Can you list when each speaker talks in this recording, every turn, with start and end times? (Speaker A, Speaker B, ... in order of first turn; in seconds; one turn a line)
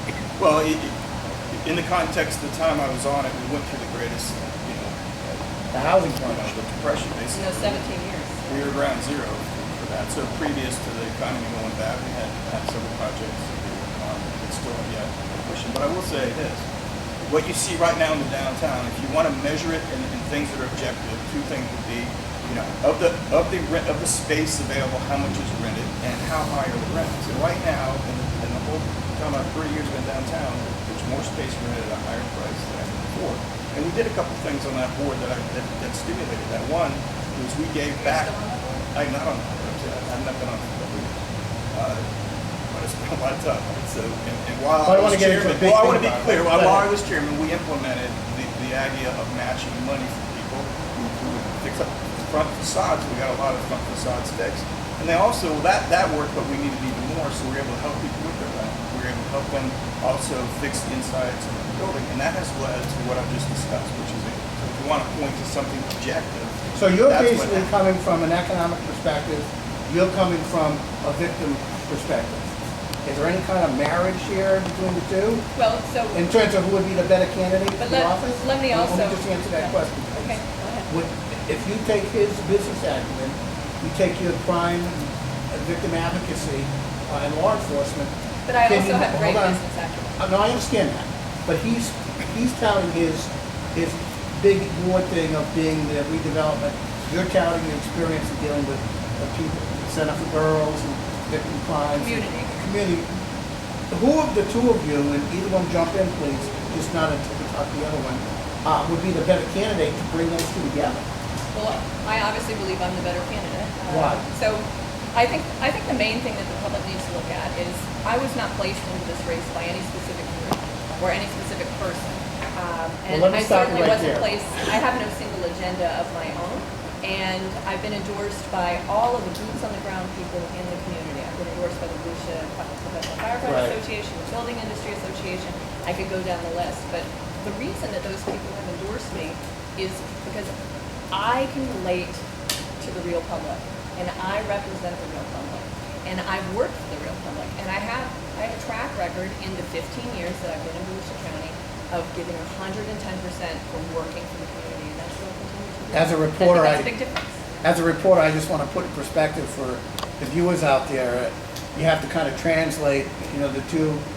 Speaker A: 0.4-0.9
Speaker A: 1.5-5.4
Speaker B: 5.7-6.6
Speaker A: 6.2-7.9
Speaker C: 7.3-8.8
Speaker A: 8.5-16.6
Speaker A: 17.2-38.4
Speaker C: 38.0-38.9
Speaker A: 38.9-41.2
Speaker A: 41.7-42.0
Speaker A: 42.7-67.7
Speaker B: 44.8-46.9
Speaker B: 66.8-72.5
Speaker B: 73.0-75.5
Speaker C: 75.6-76.3
Speaker B: 76.1-88.1
Speaker C: 77.8-80.9
Speaker C: 88.5-90.2
Speaker B: 88.7-89.6
Speaker B: 90.2-103.1
Speaker C: 102.0-102.6
Speaker B: 103.9-111.0
Speaker C: 111.5-140.5
Speaker B: 113.9-114.3
Speaker B: 123.1-124.3
Speaker B: 133.4-133.8
Speaker C: 141.1-142.2
Speaker C: 142.8-157.4
Speaker B: 155.9-156.9
Speaker B: 157.6-164.0